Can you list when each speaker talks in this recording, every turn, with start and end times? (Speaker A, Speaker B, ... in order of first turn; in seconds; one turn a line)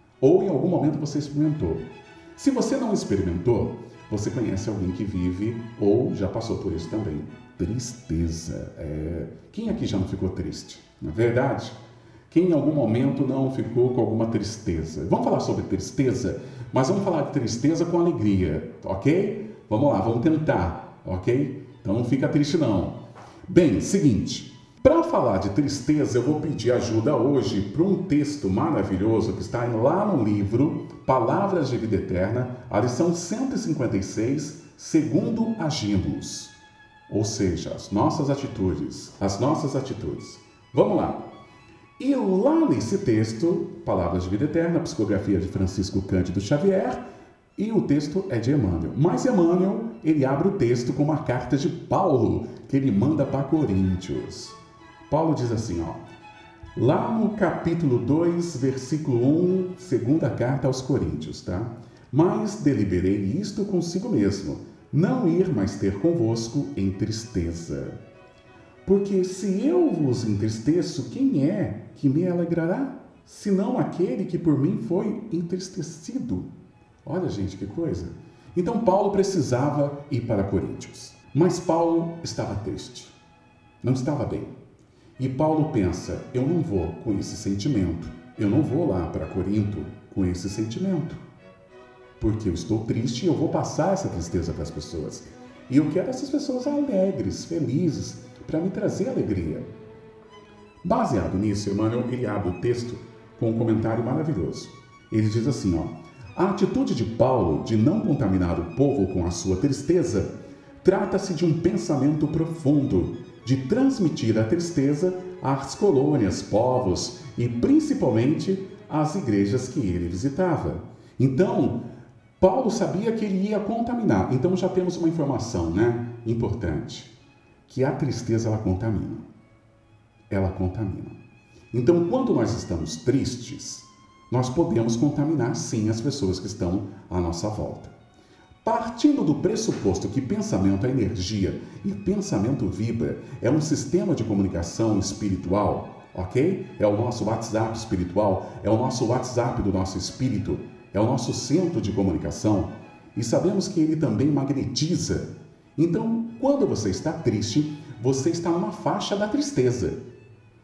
Speaker A: 0.2-1.9
Speaker A: 2.4-11.8
Speaker A: 12.3-36.5
Speaker A: 37.1-41.3
Speaker A: 42.0-47.0
Speaker A: 47.6-56.0
Speaker A: 56.8-68.0
Speaker A: 68.8-76.5
Speaker A: 77.0-83.2
Speaker A: 83.8-84.5
Speaker A: 85.2-91.2
Speaker A: 92.2-99.7
Speaker A: 100.8-121.8
Speaker A: 122.4-127.1
Speaker A: 127.7-129.2
Speaker A: 130.3-131.2
Speaker A: 131.7-137.9
Speaker A: 138.6-160.0